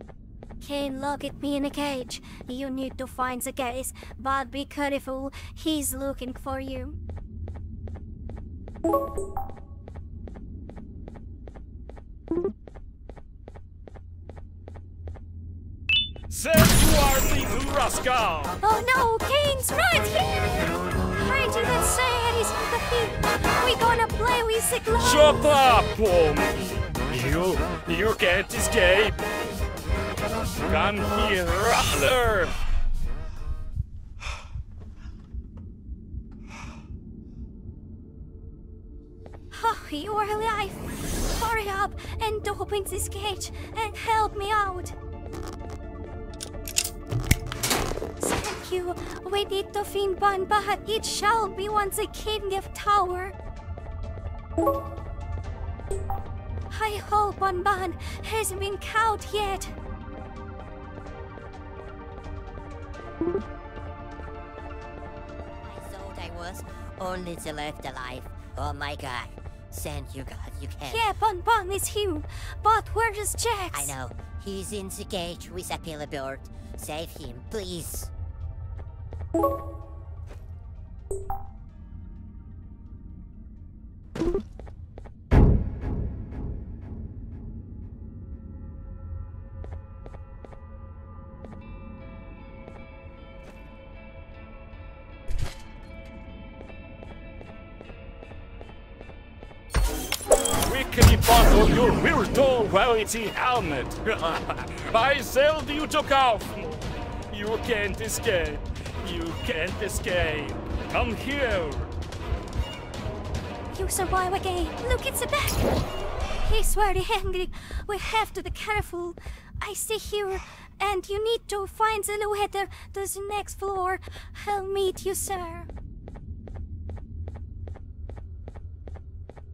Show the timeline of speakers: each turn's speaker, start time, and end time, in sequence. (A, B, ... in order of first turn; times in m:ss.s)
0:00.6-0:07.0 A
0:16.3-0:18.6 B
0:18.6-0:25.4 A
0:25.0-0:29.2 B
0:30.7-0:32.6 B
0:39.5-0:45.0 A
0:48.2-0:53.4 A
0:56.7-0:59.7 A
1:05.6-1:11.1 C
1:10.9-1:13.9 A
1:13.7-1:18.1 C
1:40.6-1:51.9 B
1:53.7-1:55.7 A
1:56.4-2:05.7 A